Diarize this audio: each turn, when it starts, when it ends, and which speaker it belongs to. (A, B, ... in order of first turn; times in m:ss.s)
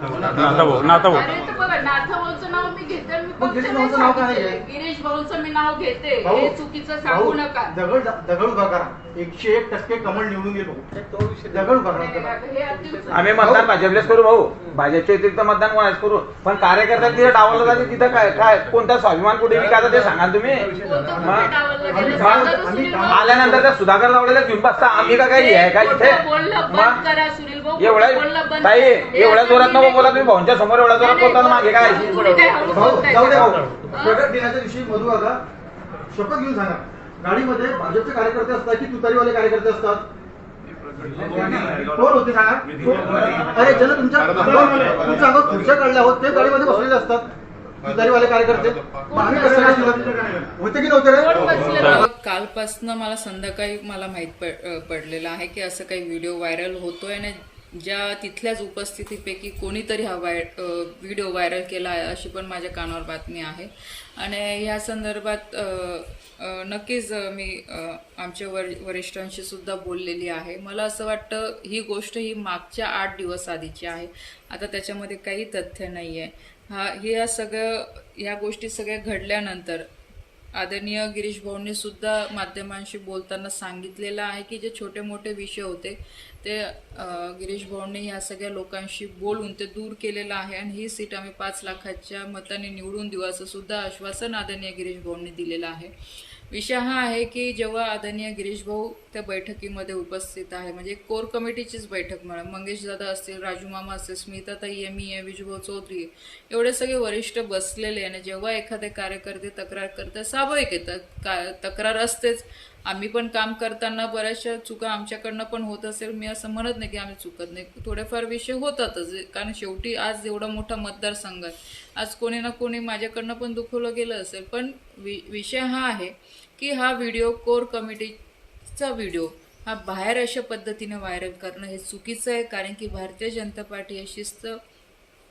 0:00.2-0:01.3 A
0:01.0-0:07.8 B
0:03.4-0:04.6 C
0:06.2-0:12.4 C
0:11.9-0:13.7 B
0:13.1-0:21.5 A
0:13.3-0:13.7 C
0:20.8-0:23.5 B
0:20.9-0:23.7 C
0:22.0-0:22.5 A
0:23.0-0:27.0 A
0:25.2-0:30.3 B
0:27.8-0:32.4 A
0:30.9-0:34.2 B
0:32.7-0:35.4 C
0:36.1-0:40.0 C
0:41.3-0:47.3 C
0:47.8-0:51.5 C
0:49.1-0:50.0 B
0:51.2-0:52.0 B
0:51.3-1:19.9 D
1:20.5-1:35.9 D
1:36.5-2:14.6 D